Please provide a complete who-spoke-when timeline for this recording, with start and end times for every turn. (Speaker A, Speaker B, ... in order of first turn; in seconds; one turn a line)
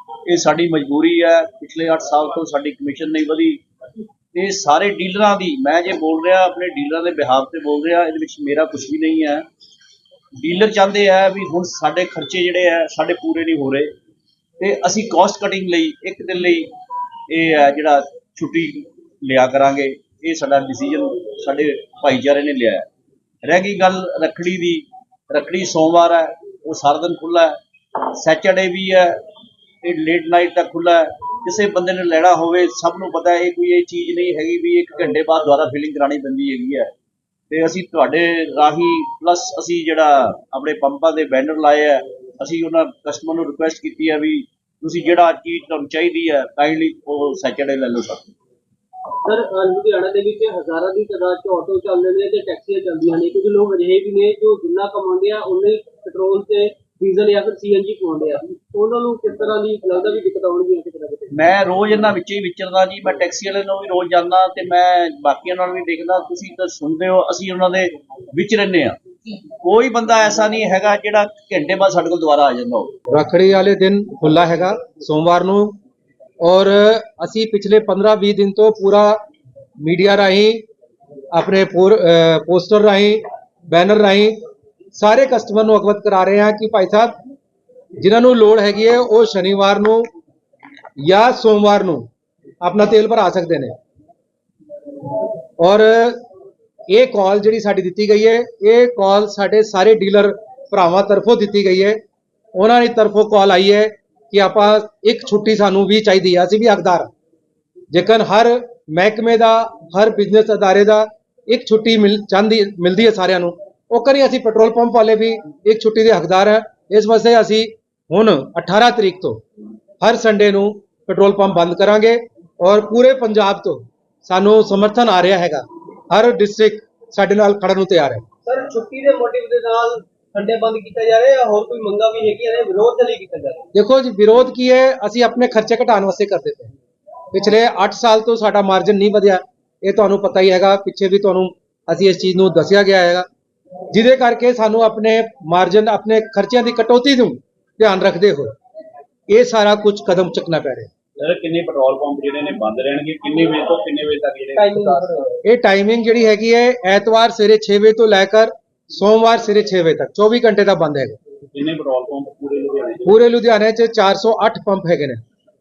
Speaker A: 0.3-3.6
Speaker A: 4.3-9.4
Speaker A: 10.4-13.9
Speaker A: 14.6-16.7
Speaker A: 17.3-22.9
Speaker A: 23.4-29.2
Speaker A: 29.8-36.9
Speaker A: 37.5-48.3
Speaker B: 49.2-61.4
Speaker A: 61.3-72.9
Speaker C: 73.1-75.8
Speaker C: 76.4-79.2
Speaker C: 79.8-80.6
Speaker C: 81.3-84.4
Speaker C: 85.0-87.2
Speaker C: 88.0-90.0
Speaker C: 91.0-92.1
Speaker C: 92.6-93.7
Speaker C: 95.6-96.2
Speaker C: 96.9-102.0
Speaker C: 102.5-107.1
Speaker C: 107.9-119.4
Speaker C: 120.0-128.2
Speaker B: 128.5-133.7
Speaker C: 133.7-136.7
Speaker C: 137.3-143.3
Speaker C: 143.9-148.5
Speaker C: 149.3-150.9
Speaker A: 151.2-155.2
Speaker B: 154.6-155.3
Speaker C: 155.4-161.2
Speaker A: 161.5-163.1
Speaker C: 163.1-165.2